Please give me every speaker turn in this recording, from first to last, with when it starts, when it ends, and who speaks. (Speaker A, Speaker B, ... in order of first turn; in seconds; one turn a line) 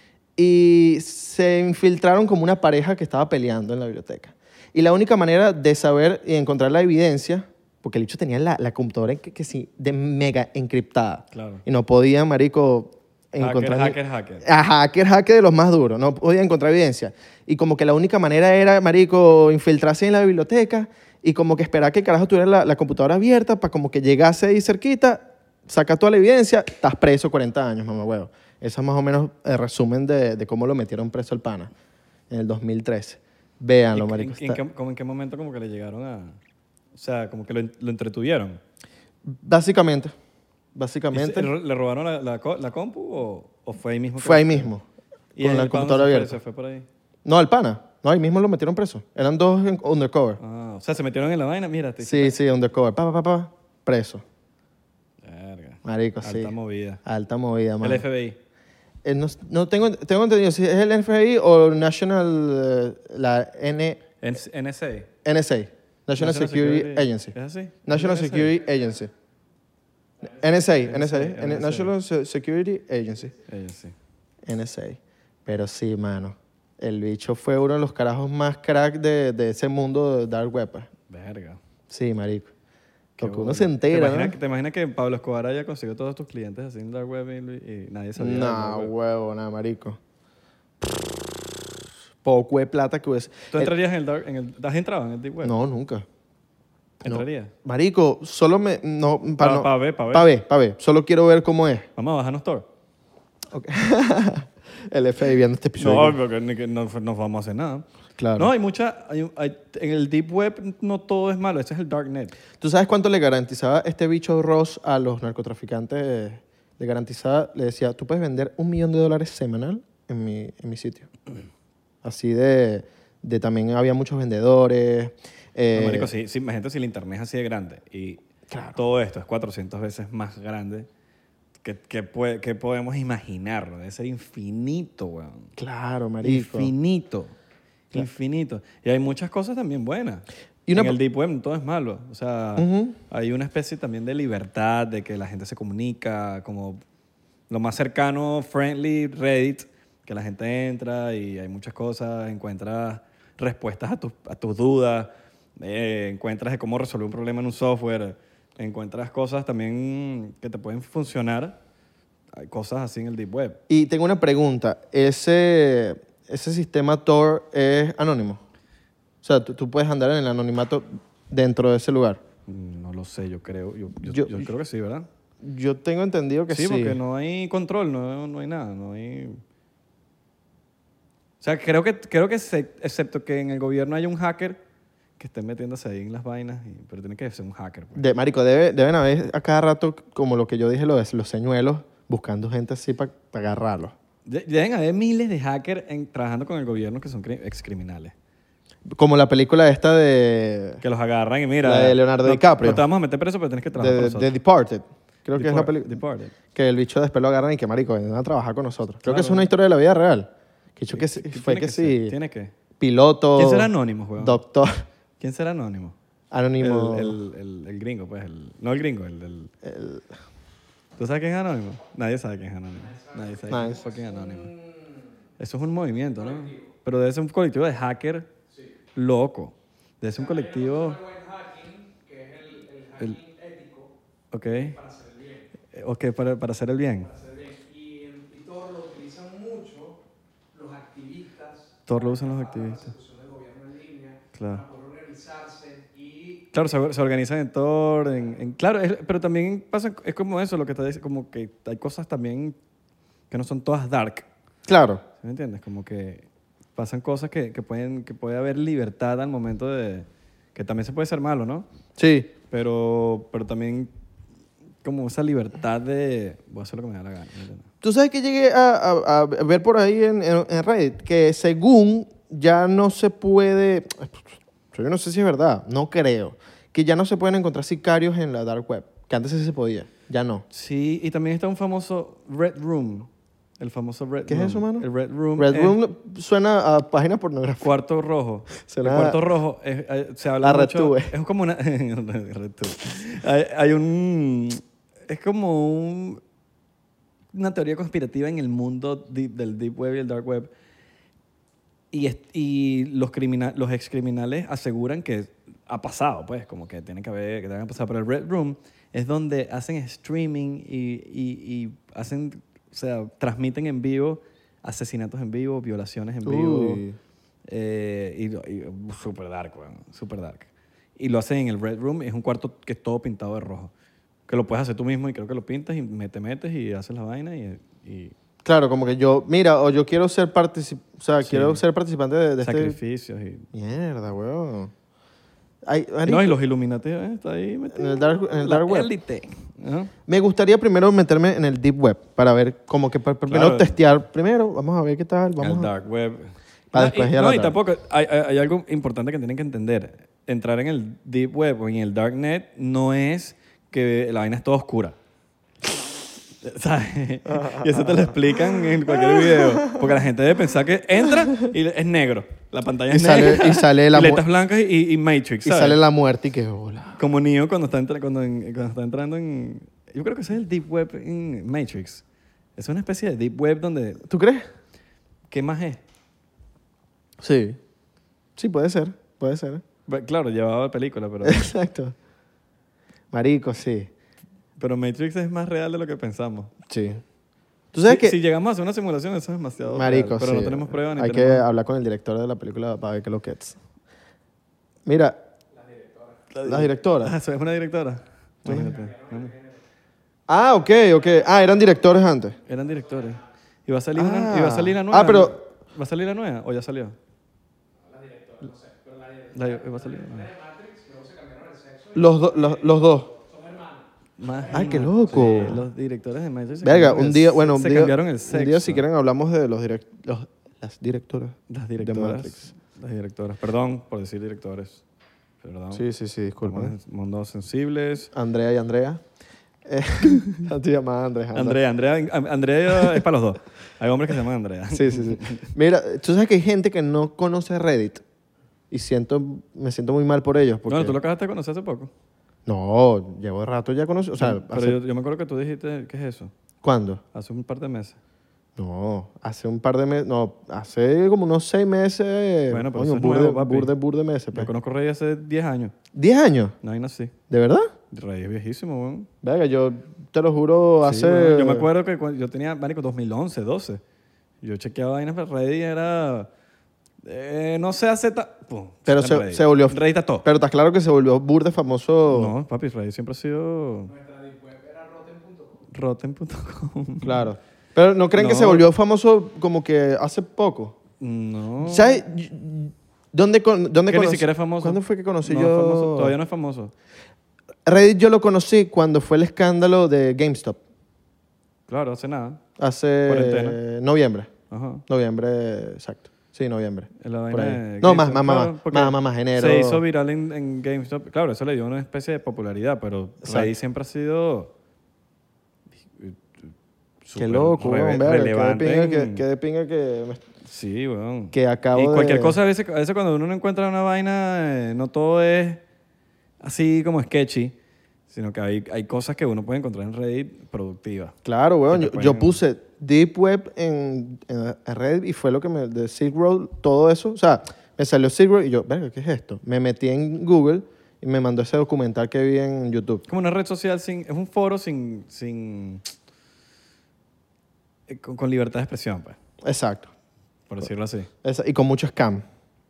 Speaker A: 0.4-31.7
Speaker B: 11.3-11.6
Speaker B: 13.4-14.4
Speaker A: 32.3-34.6
Speaker B: 33.9-36.4
Speaker B: 36.9-38.6
Speaker A: 39.2-40.1
Speaker A: 40.7-41.5
Speaker B: 41.1-44.7
Speaker A: 44.2-44.8
Speaker B: 45.4-46.9
Speaker A: 45.4-46.4
Speaker A: 47.2-50.4
Speaker B: 50.4-52.4
Speaker A: 52.0-54.2
Speaker B: 55.2-57.0
Speaker A: 55.8-58.0
Speaker B: 57.8-58.4
Speaker A: 59.0-64.0
Speaker B: 64.2-65.1
Speaker A: 65.2-67.3
Speaker B: 66.2-68.5
Speaker A: 67.8-69.1
Speaker A: 70.2-73.3
Speaker B: 70.8-71.9
Speaker B: 73.4-73.9
Speaker A: 74.4-80.9
Speaker B: 81.1-81.6
Speaker A: 81.9-82.5
Speaker A: 83.2-84.3
Speaker B: 83.2-88.9
Speaker A: 88.2-90.0
Speaker A: 92.2-93.7
Speaker B: 93.5-95.5
Speaker A: 95.4-96.0
Speaker B: 97.0-97.5
Speaker A: 97.0-101.9
Speaker B: 99.4-100.3
Speaker B: 102.0-102.7
Speaker A: 103.5-106.2
Speaker B: 105.8-107.8
Speaker A: 108.2-108.5
Speaker B: 108.3-112.3
Speaker A: 112.6-121.1
Speaker A: 122.0-126.1
Speaker B: 125.7-128.2
Speaker A: 128.5-128.8
Speaker B: 128.8-130.9
Speaker B: 131.6-135.5
Speaker A: 135.6-136.7
Speaker B: 136.2-137.3
Speaker B: 137.9-146.8
Speaker A: 140.7-140.9
Speaker A: 142.6-143.0
Speaker B: 147.5-161.6
Speaker B: 162.3-163.6
Speaker A: 163.7-168.4
Speaker A: 169.2-172.2
Speaker B: 172.5-175.1
Speaker A: 174.1-174.5
Speaker A: 175.4-177.0
Speaker B: 176.5-179.4
Speaker B: 181.4-184.6
Speaker B: 185.2-188.0
Speaker A: 187.9-193.9
Speaker B: 194.2-198.1
Speaker A: 199.0-200.8
Speaker B: 200.8-204.3
Speaker A: 201.6-202.8
Speaker A: 203.8-206.0
Speaker B: 205.3-206.3
Speaker A: 206.5-212.1
Speaker B: 209.0-209.5
Speaker B: 210.9-212.5
Speaker A: 212.8-214.8
Speaker B: 213.3-214.4
Speaker B: 215.2-215.9
Speaker A: 216.3-217.2
Speaker B: 216.6-219.5
Speaker A: 219.6-220.1
Speaker B: 221.0-224.5
Speaker C: 222.8-225.1
Speaker A: 223.5-223.8
Speaker B: 225.4-228.3
Speaker C: 226.2-226.7
Speaker C: 228.5-228.8
Speaker B: 228.9-231.0
Speaker C: 230.1-233.9
Speaker B: 234.3-234.8
Speaker C: 234.5-235.5
Speaker B: 235.7-237.1
Speaker C: 237.0-240.0
Speaker C: 240.5-246.6
Speaker B: 241.9-242.9
Speaker B: 244.3-244.6
Speaker B: 246.5-252.6
Speaker B: 253.3-254.3
Speaker A: 254.7-255.0
Speaker B: 255.2-261.6
Speaker A: 262.0-262.3
Speaker B: 262.5-263.9
Speaker B: 264.8-267.7
Speaker A: 267.8-280.4
Speaker B: 280.5-285.8
Speaker A: 284.3-284.9
Speaker A: 285.4-287.7
Speaker B: 287.6-296.2
Speaker A: 288.6-289.2
Speaker A: 290.4-291.1
Speaker B: 297.3-300.5
Speaker B: 301.9-316.8
Speaker A: 316.2-317.0
Speaker B: 317.5-323.7
Speaker B: 324.3-328.1
Speaker A: 328.4-332.8
Speaker B: 331.2-331.6
Speaker B: 332.4-333.5
Speaker A: 333.5-334.7
Speaker A: 335.6-336.3
Speaker B: 336.0-339.9
Speaker A: 337.7-338.9
Speaker A: 340.1-345.7
Speaker B: 343.3-343.8
Speaker B: 345.4-354.9
Speaker A: 346.7-347.6
Speaker B: 356.4-365.8
Speaker A: 357.3-358.1
Speaker A: 359.2-359.7
Speaker A: 362.9-364.2
Speaker A: 365.4-367.0
Speaker B: 367.0-372.0
Speaker B: 372.6-374.0
Speaker A: 374.0-374.4
Speaker B: 375.3-375.8
Speaker A: 377.2-377.6
Speaker A: 378.4-379.6
Speaker B: 379.9-381.5
Speaker A: 381.2-381.9
Speaker A: 383.1-383.9
Speaker B: 384.6-386.5
Speaker A: 386.7-387.0
Speaker A: 387.7-388.1
Speaker B: 387.9-391.4
Speaker A: 389.7-393.6
Speaker A: 394.9-395.2
Speaker C: 395.5-396.3
Speaker B: 396.3-399.3
Speaker A: 396.4-397.1
Speaker A: 398.4-398.7
Speaker C: 398.5-399.6
Speaker A: 400.3-402.4
Speaker C: 400.9-401.6
Speaker C: 402.4-403.3
Speaker B: 402.5-406.9
Speaker A: 403.9-405.3
Speaker C: 407.8-415.1
Speaker B: 409.3-410.3
Speaker A: 411.9-413.1
Speaker B: 414.2-418.8
Speaker A: 414.5-415.6
Speaker A: 416.6-422.5
Speaker B: 421.5-424.8
Speaker B: 425.4-425.8
Speaker A: 425.7-426.7
Speaker B: 426.4-428.1
Speaker A: 428.1-429.0
Speaker A: 429.6-431.6
Speaker B: 431.3-435.5
Speaker A: 434.7-438.0
Speaker A: 438.7-441.0
Speaker B: 440.7-441.9
Speaker A: 442.5-444.8
Speaker B: 444.2-446.3
Speaker A: 446.6-447.0
Speaker B: 447.1-448.0
Speaker A: 448.6-454.5
Speaker B: 452.5-453.7
Speaker B: 454.3-455.7
Speaker A: 455.9-456.5
Speaker B: 456.6-457.1
Speaker A: 457.3-457.7
Speaker B: 457.9-459.1
Speaker A: 459.2-461.7
Speaker B: 460.8-463.8
Speaker B: 464.4-466.3
Speaker B: 467.0-470.2
Speaker A: 468.9-472.3
Speaker B: 472.1-473.9
Speaker C: 473.9-475.6
Speaker B: 475.7-477.3
Speaker A: 477.0-480.8
Speaker B: 478.1-478.7
Speaker B: 481.0-482.0
Speaker A: 481.6-486.1
Speaker B: 483.9-486.7
Speaker A: 487.6-490.6
Speaker B: 491.7-492.4
Speaker A: 492.6-494.3
Speaker B: 493.1-493.6
Speaker B: 494.5-494.8
Speaker A: 494.9-499.8
Speaker B: 497.0-504.5
Speaker A: 503.2-503.5
Speaker B: 505.9-506.5
Speaker B: 507.0-509.2
Speaker A: 507.2-510.2
Speaker B: 510.4-515.6
Speaker A: 511.3-512.4
Speaker B: 516.4-517.5
Speaker B: 518.1-521.1
Speaker A: 521.2-533.0
Speaker B: 521.7-522.4
Speaker B: 533.1-535.9
Speaker B: 537.9-539.1
Speaker A: 539.4-539.9
Speaker B: 540.5-541.1
Speaker A: 541.2-542.2